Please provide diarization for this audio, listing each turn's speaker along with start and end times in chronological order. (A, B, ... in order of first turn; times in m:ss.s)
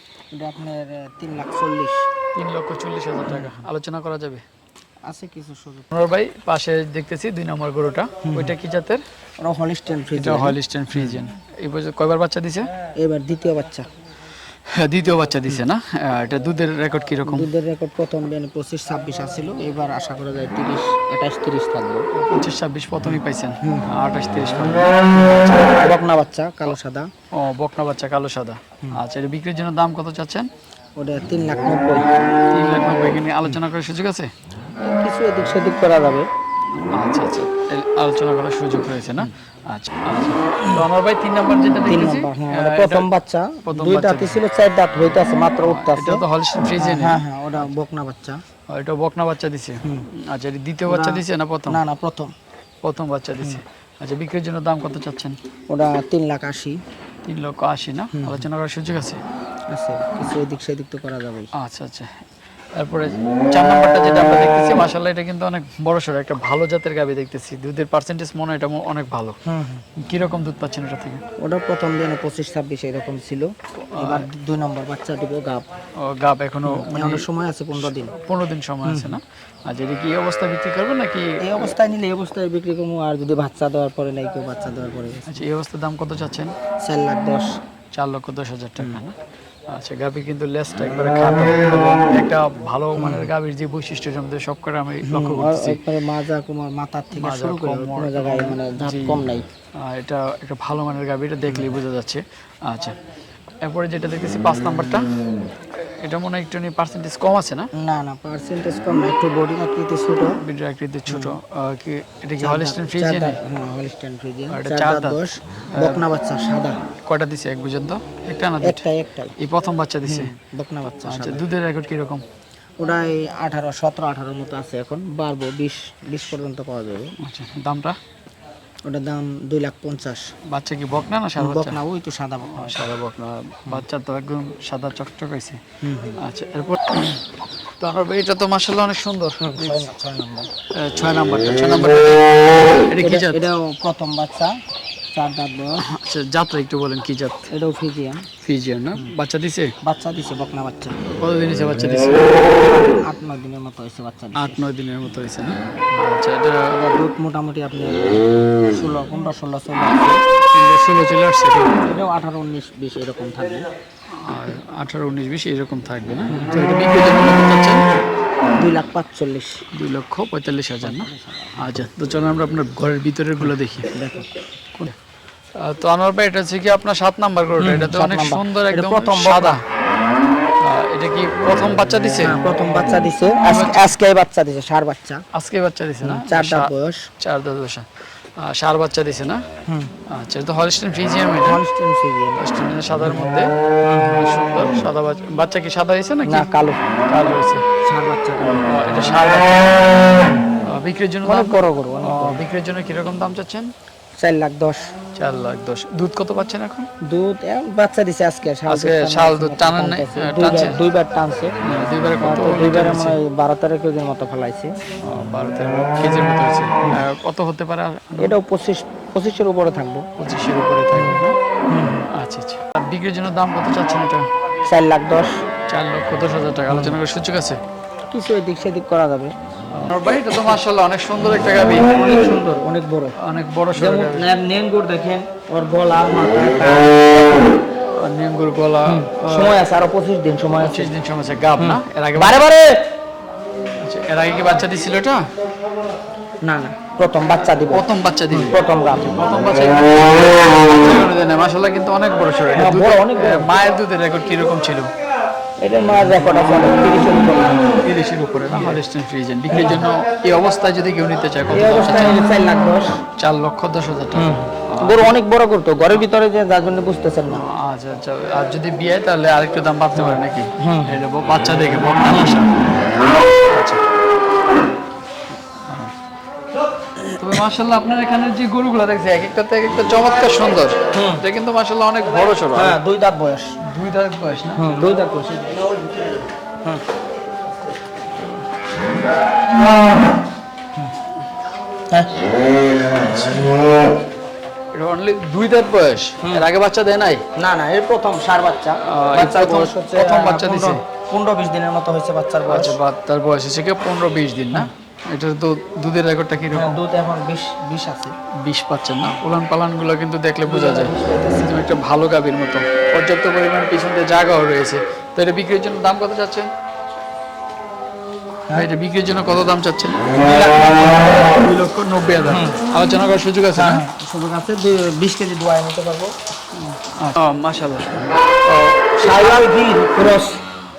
0:00.3-0:02.0 A
0:02.3-0:04.4 B
0:03.2-0:03.6 A
0:05.1-0:05.9 A
0:05.9-0:09.0 B
0:08.2-0:08.5 A
0:09.4-0:11.1 A
0:10.1-0:12.7 B
0:13.0-0:13.9 A
0:14.7-0:17.5 B
0:17.2-0:22.1 A
0:22.1-0:25.7 B
0:23.0-0:23.9 A
0:25.6-0:27.1 A
0:27.3-0:30.5 B
0:31.0-0:32.1 A
0:32.5-0:34.3 B
0:34.8-0:36.3 A
0:37.0-0:43.1 B
0:41.8-0:46.2 A
0:43.6-0:44.4 B
0:45.6-0:47.2 B
0:46.8-0:48.4 A
0:48.7-0:51.8 B
0:50.8-0:52.3 A
0:52.8-0:55.4 B
0:55.7-0:56.8 A
0:57.2-0:59.2 B
0:58.1-0:58.4 A
0:59.7-1:01.5 A
1:01.5-1:02.1 B
1:02.8-1:09.4 B
1:09.4-1:09.8 A
1:10.0-1:11.2 B
1:11.4-1:15.6 A
1:13.9-1:14.2 B
1:16.0-1:21.4 B
1:16.6-1:18.1 A
1:18.8-1:19.2 A
1:21.4-1:25.2 A
1:25.3-1:26.5 B
1:26.8-1:27.5 A
1:27.9-1:29.1 B
1:28.8-1:29.0 A
1:29.7-1:35.8 B
1:33.0-1:33.3 A
1:35.0-1:39.4 A
1:37.2-1:39.2 B
1:39.8-1:43.0 B
1:41.5-1:41.7 A
1:43.6-1:45.1 B
1:45.8-1:47.7 B
1:47.8-1:50.4 A
1:50.4-1:53.4 B
1:51.1-1:51.4 A
1:52.4-1:56.8 A
1:54.5-1:55.2 B
1:55.7-1:56.0 B
1:57.1-1:58.8 B
1:58.6-1:59.3 A
1:59.4-2:00.3 B
2:00.0-2:01.4 A
2:01.0-2:02.2 B
2:02.8-2:07.1 A
2:07.2-2:08.0 B
2:08.8-2:10.3 A
2:10.5-2:11.8 B
2:11.4-2:12.8 A
2:12.5-2:15.6 B
2:15.8-2:16.2 A
2:16.2-2:17.2 B
2:17.8-2:19.9 B
2:19.4-2:20.5 A
2:20.7-2:23.4 B
2:23.0-2:24.5 A
2:25.1-2:25.8 A
2:25.8-2:27.5 B
2:27.5-2:28.2 A
2:28.4-2:29.7 B
2:29.8-2:31.0 A
2:31.2-2:32.4 B
2:32.4-2:34.6 A
2:34.4-2:36.8 B
2:36.7-2:40.2 A
2:40.5-2:41.8 B
2:41.8-2:43.7 A
2:44.2-2:47.8 B
2:46.3-2:46.6 A
2:48.6-2:49.6 A
2:49.7-2:54.0 B
2:50.8-2:51.7 A
2:53.4-2:54.3 A
2:55.6-2:59.6 B
2:57.6-2:59.6 A
3:00.6-3:02.4 B
3:02.1-3:05.2 A
3:03.4-3:03.9 B
3:05.3-3:07.9 B
3:06.0-3:07.0 A
3:08.4-3:09.4 B
3:09.7-3:09.9 A
3:10.1-3:11.6 B
3:11.4-3:12.4 A
3:12.4-3:13.5 B
3:13.8-3:14.3 A
3:14.1-3:16.5 B
3:16.2-3:16.9 A
3:17.0-3:17.6 B
3:17.9-3:18.6 A
3:18.4-3:23.7 B
3:21.2-3:22.4 A
3:24.2-3:24.9 A
3:25.2-3:26.9 B
3:27.0-3:31.5 A
3:28.7-3:30.8 B
3:31.6-3:33.2 B
3:32.2-3:34.7 A
3:35.0-3:38.3 B
3:38.2-3:40.0 A
3:40.2-3:41.4 B
3:40.9-3:42.1 A
3:42.1-3:44.2 B
3:44.6-3:45.4 A
3:45.7-3:47.6 B
3:46.7-3:47.0 A
3:48.1-3:49.3 A
3:49.7-3:51.9 B
3:51.9-3:53.1 A
3:53.2-3:54.3 B
3:53.7-3:57.5 A
3:58.0-3:59.6 B
3:58.9-4:00.9 A
4:00.6-4:02.4 B
4:01.6-4:02.8 A
4:03.8-4:05.2 B
4:06.4-4:09.2 A
4:07.7-4:08.6 B
4:09.2-4:14.9 B
4:12.5-4:13.7 A
4:15.6-4:17.8 A
4:17.8-4:22.2 B
4:18.5-4:18.8 A
4:19.5-4:19.8 A
4:21.5-4:23.0 A
4:23.2-4:25.2 B
4:24.1-4:27.4 A
4:27.3-4:32.6 B
4:30.6-4:31.0 A
4:32.1-4:32.3 A
4:33.5-4:33.8 B
4:35.7-4:35.9 B
4:37.2-4:42.8 B
4:40.9-4:41.2 A
4:42.5-4:43.5 A
4:43.6-4:44.8 B
4:44.6-4:45.7 A
4:53.0-4:53.4 B
4:54.7-4:57.2 B
4:57.4-5:02.8 A
4:58.8-5:00.8 B
5:02.5-5:06.8 B
5:06.5-5:08.1 A
5:08.4-5:16.5 B
5:10.4-5:11.5 A
5:18.5-5:20.2 B
5:20.2-5:21.3 A
5:21.1-5:23.9 B
5:22.2-5:22.6 A
5:23.5-5:26.1 A
5:26.5-5:29.4 B
5:29.0-5:30.4 A